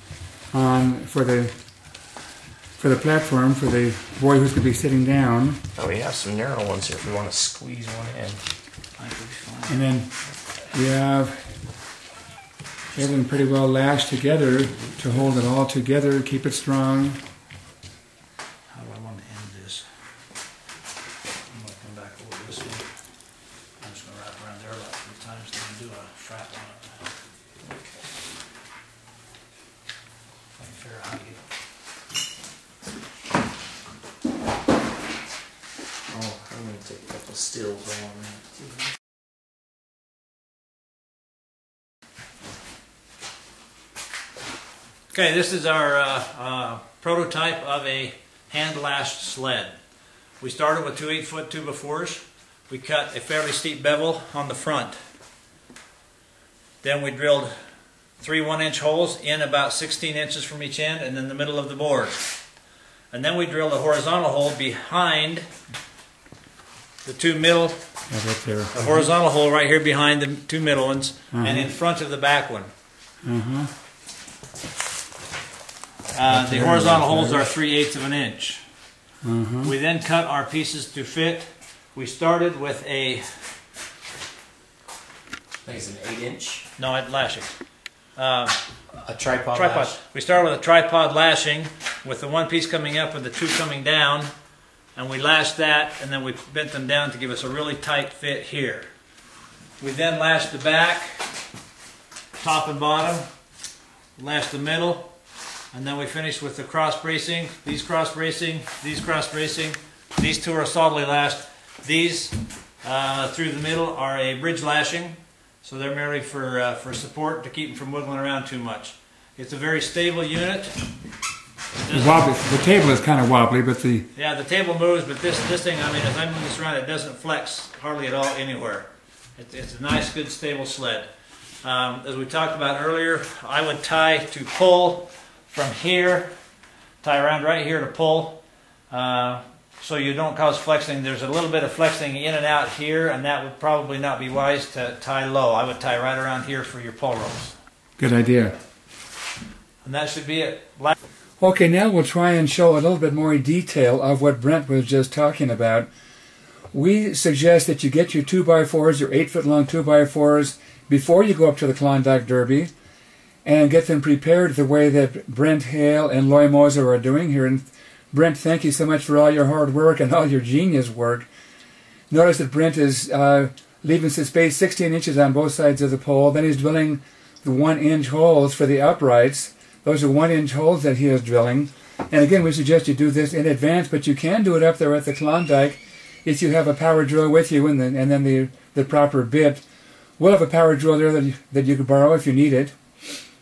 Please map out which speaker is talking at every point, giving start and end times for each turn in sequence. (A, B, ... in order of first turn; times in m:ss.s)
0:00.5-0:01.5 A
0:02.8-0:05.6 A
0:05.7-0:08.4 B
0:09.0-0:09.9 C
0:09.7-0:10.1 A
0:10.7-0:11.4 A
0:12.9-0:17.2 A
0:18.7-0:19.9 C
0:21.5-0:22.9 C
0:23.8-0:27.1 C
0:27.6-0:27.9 B
0:30.6-0:31.4 C
0:36.1-0:38.4 B
0:45.1-0:49.8 C
0:50.4-0:55.0 C
0:56.8-0:57.5 C
0:58.2-1:02.3 C
1:03.1-1:05.5 C
1:07.0-1:07.9 C
1:08.1-1:09.0 A
1:08.7-1:12.7 C
1:11.3-1:11.7 A
1:13.2-1:13.7 A
1:16.1-1:18.6 C
1:16.3-1:17.5 A
1:19.2-1:19.7 A
1:19.6-1:23.6 C
1:25.6-1:26.6 B
1:26.8-1:27.5 C
1:28.1-1:28.6 C
1:29.0-1:30.0 B
1:29.5-1:34.3 C
1:34.9-1:38.9 C
1:39.8-1:41.3 C
1:42.4-1:43.3 C
1:44.2-1:45.1 C
1:45.7-2:00.8 C
2:01.8-2:02.4 C
2:01.9-2:04.1 A
2:04.1-2:11.1 C
2:11.6-2:16.3 C
2:17.0-2:27.5 C
2:28.0-2:28.6 A
2:29.8-2:30.9 C
2:31.4-2:35.9 A
2:36.7-2:42.7 A
2:43.4-2:51.3 A
2:52.1-3:09.6 A
3:10.2-3:12.7 A